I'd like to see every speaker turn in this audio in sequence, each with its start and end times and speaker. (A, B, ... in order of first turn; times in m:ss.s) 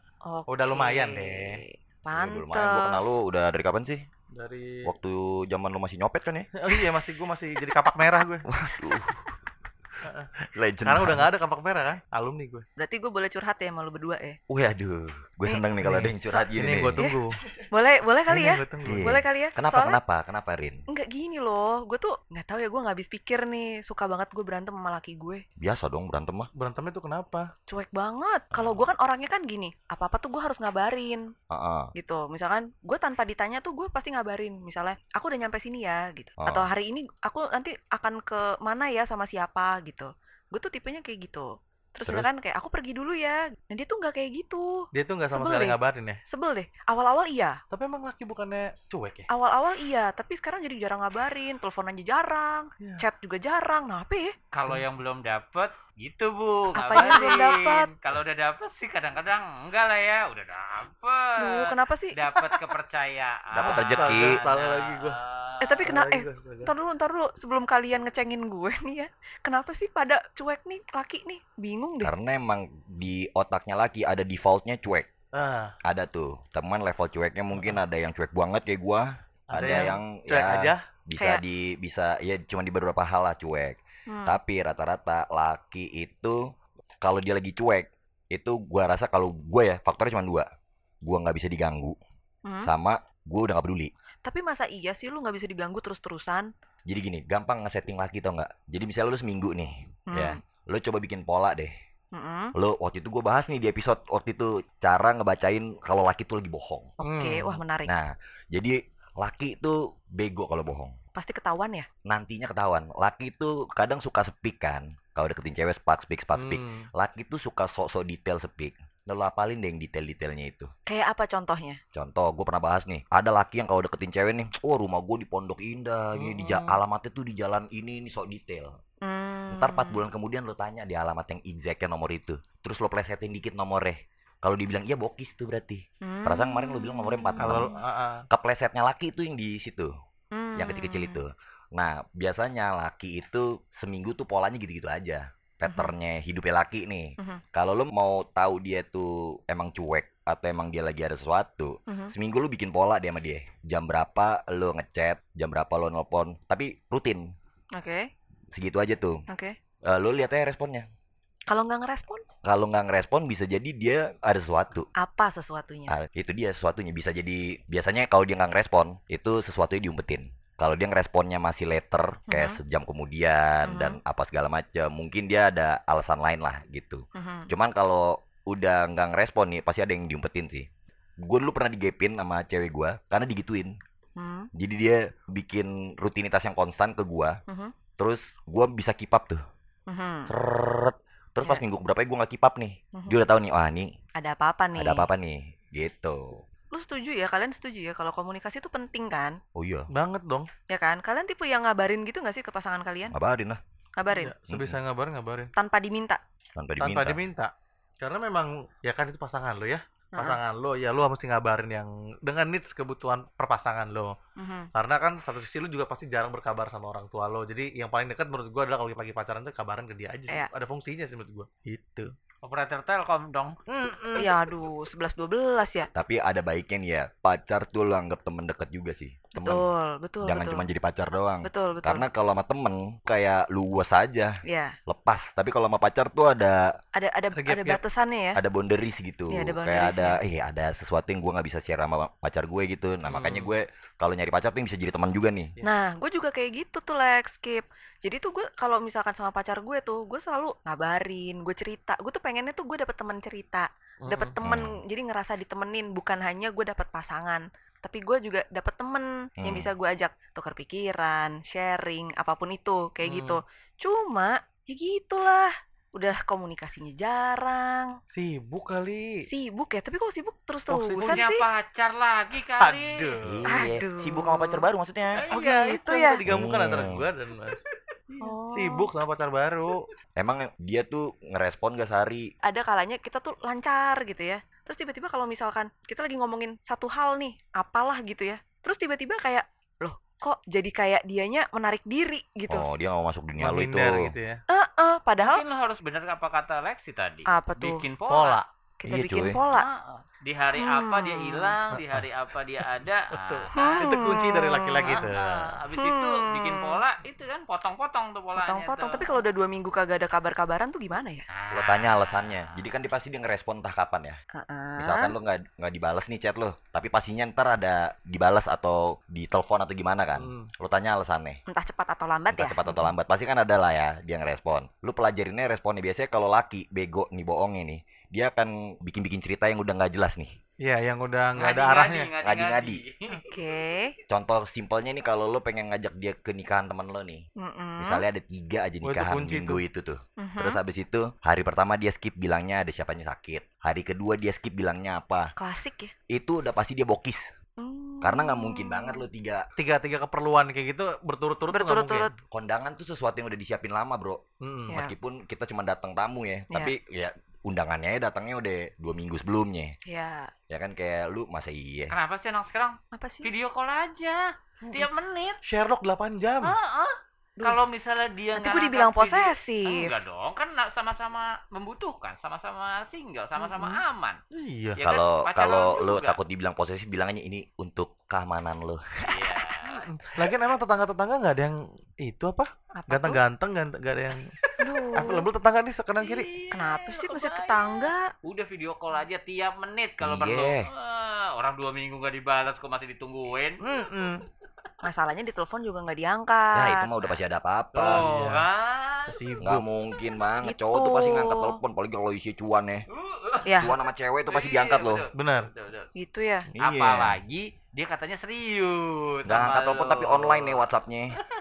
0:00.2-0:03.2 A
0:00.5-0:01.6 B
0:02.1-0:04.1 C
0:04.3-0:04.9 B
0:04.8-0:06.5 C
0:06.6-0:08.5 B
0:08.5-0:09.3 C
0:10.0-0:12.6 B
0:10.6-0:11.3 C
0:12.8-0:14.4 A
0:14.5-0:17.0 C
0:15.8-0:17.4 B
0:17.7-0:20.0 A
0:18.3-0:19.1 B
0:18.8-0:20.8 C
0:20.9-0:25.4 A
0:25.6-0:26.5 C
0:26.5-0:27.5 B
0:27.7-0:31.2 A
0:28.5-0:28.9 C
0:31.5-0:31.9 C
0:32.0-0:44.7 A
0:36.4-0:36.7 C
0:44.9-0:46.2 B
0:45.3-0:47.6 A
0:47.7-0:49.3 B
0:49.3-0:54.4 A
0:52.8-0:53.1 B
0:54.5-1:05.9 D
0:56.8-0:57.9 A
1:01.4-1:02.2 A
1:03.5-1:04.5 C
1:03.6-1:05.2 B
1:05.6-1:12.1 A
1:05.8-1:06.7 B
1:12.0-1:15.1 C
1:15.3-1:15.8 B
1:15.8-1:26.4 C
1:17.6-1:17.8 B
1:19.5-1:20.9 B
1:21.2-1:21.4 A
1:24.1-1:24.4 A
1:27.0-1:30.5 C
1:31.0-1:32.0 C
1:32.4-1:32.7 A
1:32.6-1:33.9 C
1:34.2-1:36.5 A
1:36.9-1:41.7 C
1:40.1-1:40.4 A
1:42.1-1:42.5 A
1:42.6-1:46.9 C
1:47.0-1:47.9 A
1:47.0-1:47.6 B
1:47.9-1:51.0 C
1:51.2-1:51.9 A
1:52.0-2:00.7 C
1:56.3-1:56.9 B
2:00.9-2:01.8 A
2:01.9-2:08.7 C
2:06.2-2:06.7 B
2:09.0-2:10.0 A
2:09.5-2:17.7 C
2:16.0-2:17.8 A
2:17.4-2:18.2 B
2:18.3-2:19.9 C
2:20.3-2:21.2 A
2:20.6-2:37.3 C
2:25.7-2:25.9 A
2:31.9-2:32.1 A
2:37.8-2:38.1 A
2:38.5-2:39.2 C
2:39.3-2:39.5 A
2:39.9-2:40.9 C
2:41.5-2:42.2 A
2:42.4-2:44.9 C
2:45.0-2:46.0 A
2:45.9-3:00.7 C
2:52.3-2:52.6 A
2:53.6-2:54.0 A
2:57.2-2:57.5 A
3:01.2-3:03.7 C
3:04.2-3:04.5 A
3:04.5-3:07.4 C
3:07.5-3:07.7 A
3:08.0-3:09.4 C
3:09.9-3:10.3 A
3:10.3-3:13.9 C
3:12.9-3:13.2 A
3:14.2-3:15.1 A
3:14.8-3:16.3 C
3:16.7-3:19.4 A
3:19.6-3:19.9 C
3:19.9-3:20.5 B
3:20.7-3:23.1 A
3:23.1-3:23.6 C
3:24.0-3:24.3 A
3:24.1-3:25.5 B
3:24.5-3:24.8 C
3:25.6-3:26.2 A
3:26.6-3:27.2 C
3:26.8-3:34.2 B
3:30.1-3:30.4 A
3:34.4-3:34.7 A
3:34.7-3:42.1 B
3:42.4-3:43.6 D
3:43.7-3:44.4 B
3:44.2-3:45.9 A
3:45.9-3:49.7 C
3:49.3-3:50.6 A
3:50.2-3:54.3 C
3:51.4-3:52.1 A
3:54.4-3:54.7 A
3:54.9-3:56.7 C
3:57.0-3:58.4 A
3:57.4-3:57.8 B
3:58.4-4:05.5 C
3:59.3-4:00.2 A
4:03.1-4:03.5 B
4:05.6-4:27.9 A
4:14.0-4:14.4 B
4:14.4-4:14.8 C
4:19.4-4:19.7 C
4:23.0-4:23.4 B
4:28.1-4:29.2 B
4:29.3-4:31.4 A
4:30.7-4:31.3 B
4:31.0-4:33.2 D
4:32.6-4:33.4 B
4:33.2-4:35.2 C
4:33.5-4:34.6 A
4:35.1-4:39.8 B
4:35.3-4:36.2 A
4:36.2-4:37.1 C
4:38.2-4:38.9 A
4:40.2-4:42.3 C
4:42.4-4:52.6 A
4:52.5-4:54.1 C
4:53.4-4:54.4 B
4:54.5-4:55.4 A
4:55.2-4:58.4 D
4:57.3-4:57.8 A
4:58.1-4:58.5 B
4:58.8-4:59.7 A
4:58.9-4:59.4 C
4:59.5-5:03.9 D
5:00.6-5:01.6 A
5:03.1-5:05.6 B
5:03.5-5:05.1 A
5:04.8-5:09.2 D
5:05.8-5:06.8 A
5:08.4-5:11.2 A
5:11.3-5:12.6 D
5:11.5-5:14.2 C
5:14.3-5:15.1 A
5:14.8-5:21.4 C
5:20.2-5:20.5 B
5:21.5-5:22.9 A
5:22.3-5:30.3 C
5:30.6-5:32.1 B
5:31.3-5:33.3 D
5:32.2-5:32.8 C
5:33.2-5:34.0 A
5:34.1-5:37.3 C
5:37.4-5:38.0 A
5:37.8-5:45.3 C
5:38.8-5:39.6 B
5:40.2-5:40.6 A
5:45.4-5:45.9 A
5:46.1-5:47.2 C
5:47.6-5:49.0 A
5:48.0-5:49.4 C
5:49.6-5:52.1 B
5:51.5-5:52.2 A
5:52.3-5:59.8 C
5:54.4-5:54.8 B
5:59.9-6:00.3 A
6:00.5-6:02.0 C
6:01.9-6:05.4 D
6:02.9-6:03.3 A
6:05.4-6:06.6 B
6:06.4-6:14.2 D
6:07.4-6:07.6 A
6:08.4-6:09.9 A
6:13.4-6:13.8 A
6:14.3-6:14.8 B
6:14.8-6:16.2 D
6:14.8-6:19.3 C
6:19.0-6:19.8 D
6:19.6-6:24.3 B
6:22.8-6:23.2 A
6:24.4-6:24.8 D
6:24.6-6:25.3 A
6:25.0-6:26.3 B
6:26.0-6:33.6 D
6:26.5-6:28.1 A
6:30.0-6:30.7 C
6:33.6-6:34.2 B
6:34.8-6:36.9 A
6:36.5-6:38.1 C
6:37.8-6:39.4 D
6:37.8-6:38.5 B
6:39.1-6:39.6 B
6:39.4-6:42.8 C
6:40.4-6:41.6 A
6:42.9-6:43.6 D
6:43.5-6:43.7 A
6:43.5-6:45.0 C
6:44.3-6:45.9 D
6:45.1-6:45.5 B
6:46.0-6:46.5 A
6:46.6-6:47.2 C
6:46.6-6:50.6 D
6:49.2-6:51.2 C